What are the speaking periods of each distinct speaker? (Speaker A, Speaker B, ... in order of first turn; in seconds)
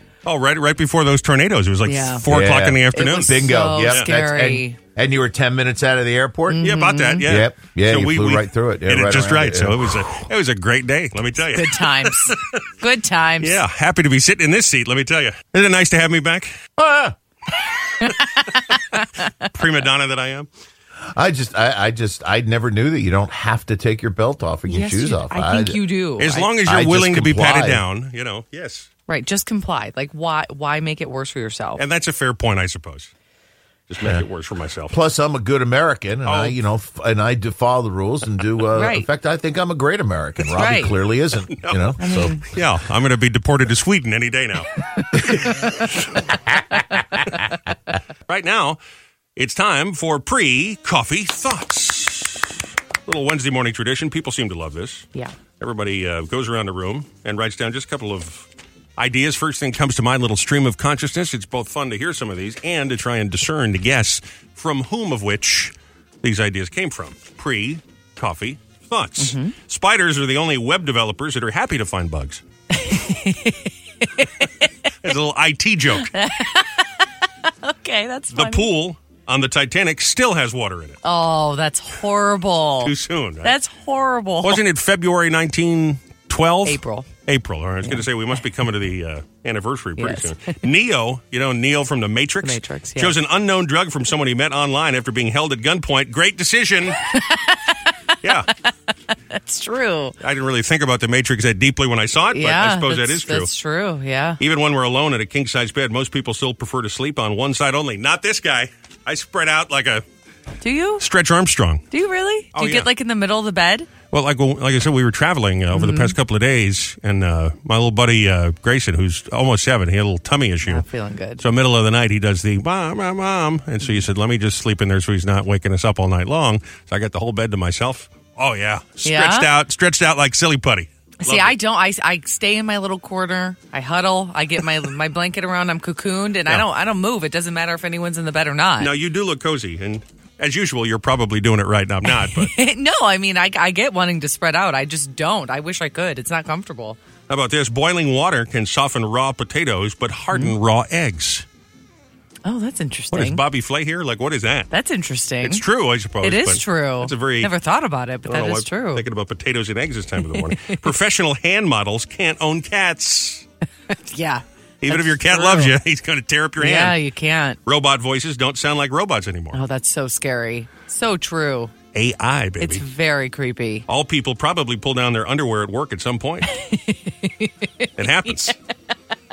Speaker A: 0.2-4.1, 6.6-12.6, 13.4-16.5, 19.4-20.5, 26.2-28.9, 31.8-33.1, 33.9-34.9, 36.2-36.6, 41.5-44.7, 48.3-48.8, 49.4-55.1, 55.6-72.4, 75.0-76.1, 78.3-81.0, 82.8-83.5, 84.4-97.0, 98.2-98.5, 100.2-103.5, 104.4-110.0, 111.0-111.8, 112.5-112.9, 114.1-120.8, 121.4-131.6, 138.8-142.5, 147.3-151.4, 153.1-154.7, 155.4-157.5, 158.3-163.4, 164.8-167.0, 167.7-169.6, 171.9-172.8, 173.9-176.5, 178.0-178.6
Speaker B: 1.9-2.2, 3.0-4.8, 6.5-7.3, 11.5-13.6, 18.0-18.6, 24.7-26.5, 29.1-31.8, 38.7-39.1, 40.5-41.0, 42.0-42.4, 69.2-69.5, 72.7-74.7, 76.0-78.7, 81.0-84.6, 86.7-87.1, 90.0-90.6, 92.4-93.2, 97.0-97.9, 99.3-100.2, 102.3-104.4, 110.6-111.0, 111.9-113.9, 115.7-116.2, 120.7-121.4, 129.0-129.5, 131.2-138.9, 142.1-147.0, 152.4-153.4, 154.7-155.6, 156.2-159.1, 160.3-160.8, 163.9-165.8, 166.6-167.6, 169.5-171.7, 172.6-173.9, 176.5-178.5
Speaker C: 2.3-6.7, 7.2-10.0, 16.8-17.2, 21.0-25.8, 26.6-27.8, 34.9-42.4